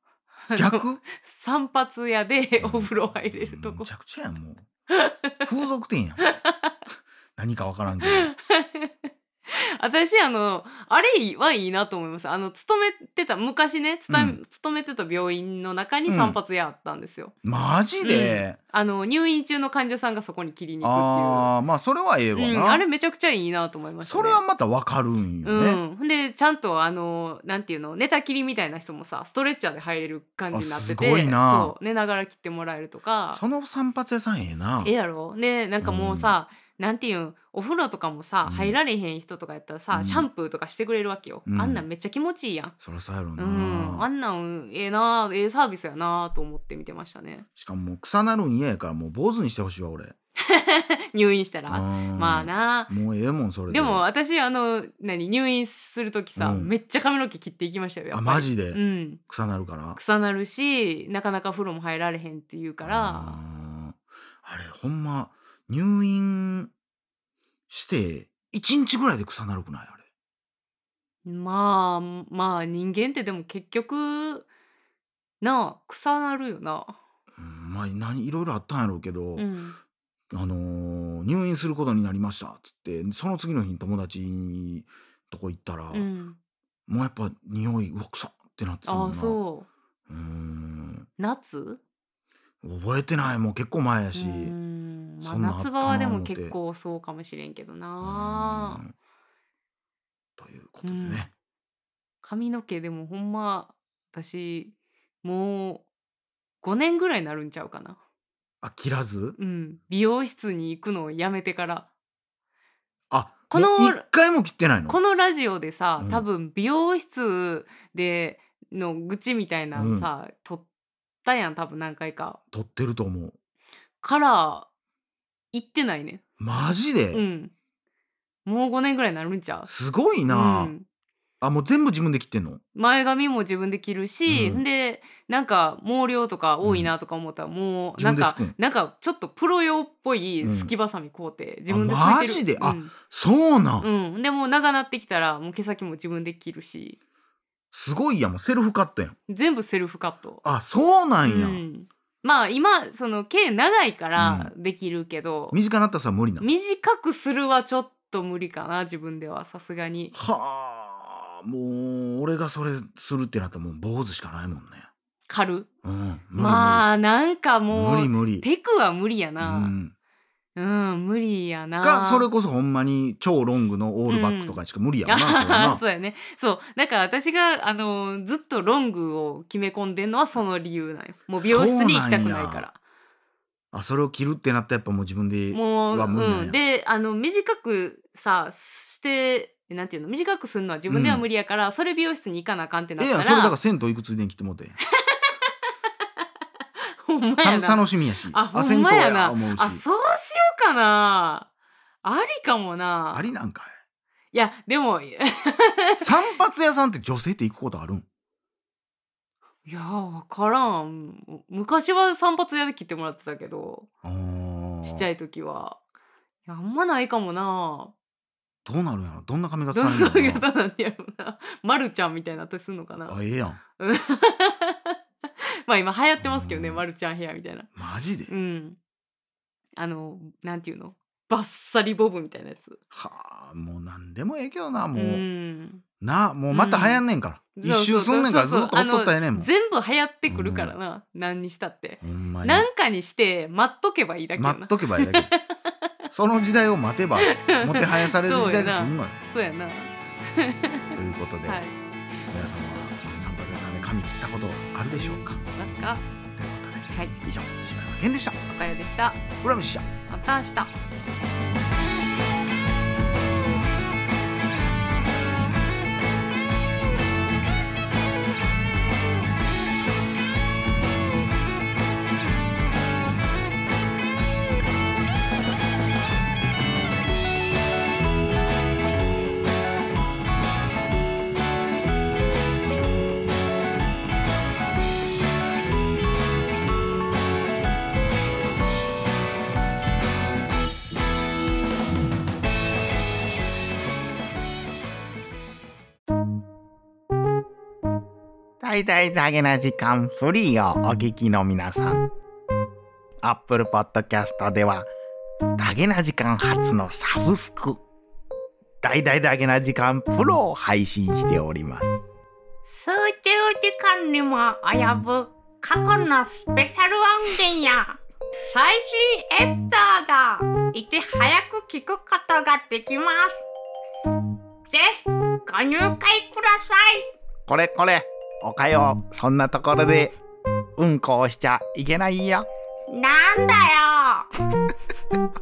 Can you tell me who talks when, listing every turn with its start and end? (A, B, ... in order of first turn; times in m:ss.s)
0:00.5-0:03.9 A
0:00.5-0:01.0 B
0:02.6-0:04.7 B
0:04.9-0:05.4 A
0:05.4-0:06.3 B
0:06.2-0:06.7 A
0:07.4-0:08.3 B
0:08.0-0:17.3 A
0:14.1-0:14.4 B
0:16.0-0:16.4 B
0:17.4-0:18.6 B
0:18.0-0:21.5 A
0:20.8-0:22.8 B
0:22.3-0:24.4 A
0:24.0-0:25.8 B
0:25.4-0:33.4 A
0:30.5-0:31.7 B
0:33.3-0:34.9 B
0:34.8-0:42.7 A
0:35.8-0:36.4 B
0:38.4-0:38.8 B
0:39.9-0:40.3 B
0:41.5-0:41.8 B
0:42.8-0:44.1 B
0:43.4-0:47.4 A
0:47.6-0:50.1 B
0:50.4-0:52.9 A
0:51.7-0:54.0 B
0:53.7-0:59.2 A
0:56.4-0:56.7 B
0:58.1-1:00.0 B
0:59.9-1:03.4 A
1:02.8-1:06.7 B
1:07.7-1:10.0 B
1:11.2-1:14.5 A
1:15.4-1:17.0 A
1:17.4-1:19.5 B
1:19.4-1:19.8 A
1:20.3-1:26.1 B
1:25.9-1:26.4 A
1:26.9-1:29.4 B
1:28.8-1:29.7 A
1:30.1-1:31.1 B
1:31.2-1:31.8 A
1:32.6-1:34.5 B
1:34.1-1:38.8 A
1:35.2-1:36.6 B
1:38.0-1:38.9 B
1:40.4-1:41.3 B
1:40.8-1:41.3 A
1:42.2-1:45.8 A
1:46.6-1:48.0 A
1:48.6-1:49.4 B
1:49.4-1:51.9 A
1:53.1-1:55.0 B
1:53.5-1:54.0 A
1:54.9-2:00.6 A
1:56.0-1:56.2 B
1:59.7-2:00.1 B
2:01.2-2:02.4 A
2:02.5-2:03.3 B
2:04.0-2:04.7 A
2:05.5-2:06.2 A
2:06.4-2:07.2 B
2:07.1-2:07.5 A
2:08.4-2:09.7 A
2:09.7-2:10.7 B
2:10.3-2:10.8 A
2:11.4-2:12.6 B
2:12.7-2:22.9 A
2:14.3-2:14.6 B
2:16.6-2:16.9 B
2:18.0-2:18.6 B
2:20.4-2:20.7 B
2:21.7-2:23.9 B
2:23.8-2:27.0 A
2:27.7-2:29.2 B
2:29.3-2:30.4 A
2:30.4-2:31.6 B
2:31.2-2:35.6 A
2:34.2-2:34.5 B
2:35.5-2:36.5 B
2:36.4-2:40.1 A
2:40.1-2:44.9 B
2:45.3-2:45.7 A
2:45.8-2:46.9 B
2:46.4-2:49.7 A
2:47.7-2:48.5 B
2:49.4-2:49.9 B
2:50.6-2:52.3 A
2:51.8-2:55.8 B
2:54.1-3:02.8 A
3:01.4-3:02.7 B
3:03.7-3:06.6 B
3:05.5-3:13.6 A
3:10.9-3:11.2 B
3:13.0-3:14.8 B
3:15.0-3:15.3 A
3:17.0-3:21.5 A
3:17.4-3:19.8 B
3:22.0-3:23.2 A
3:23.1-3:23.7 B
3:24.3-3:26.1 A
3:26.0-3:28.0 B
3:29.6-3:33.9 A
3:34.0-3:35.1 B
3:34.8-3:35.8 A
3:36.5-3:37.9 A
3:38.6-3:40.5 B
3:39.7-3:43.2 A
3:43.1-3:43.6 B
3:43.8-3:45.0 A
3:45.7-3:47.7 A
3:46.2-3:46.8 B
3:47.8-3:48.3 B
3:48.3-3:48.8 A
3:49.8-3:52.8 A
3:52.9-3:55.2 B
3:54.9-3:55.8 A
3:56.0-3:59.5 B
3:56.5-3:57.0 A
3:57.6-4:05.4 A
4:00.3-4:00.7 B
4:02.0-4:02.7 B
4:04.4-4:05.3 B
4:06.1-4:09.2 B
4:07.2-4:11.7 A
4:11.0-4:11.6 B
4:12.3-4:15.4 B
4:14.9-4:16.0 A
4:16.4-4:18.4 B
4:18.5-4:19.2 A
4:19.4-4:19.9 B
4:20.1-4:20.7 A
4:58.6-5:02.0 B
5:03.2-5:04.9 B
5:05.6-5:07.8 B
5:08.8-5:12.0 B
5:12.7-5:18.0 C
5:18.5-5:23.3 C
5:24.7-5:27.1 C
5:27.5-5:30.1 B
5:30.8-5:32.4 B
5:32.9-5:34.2 C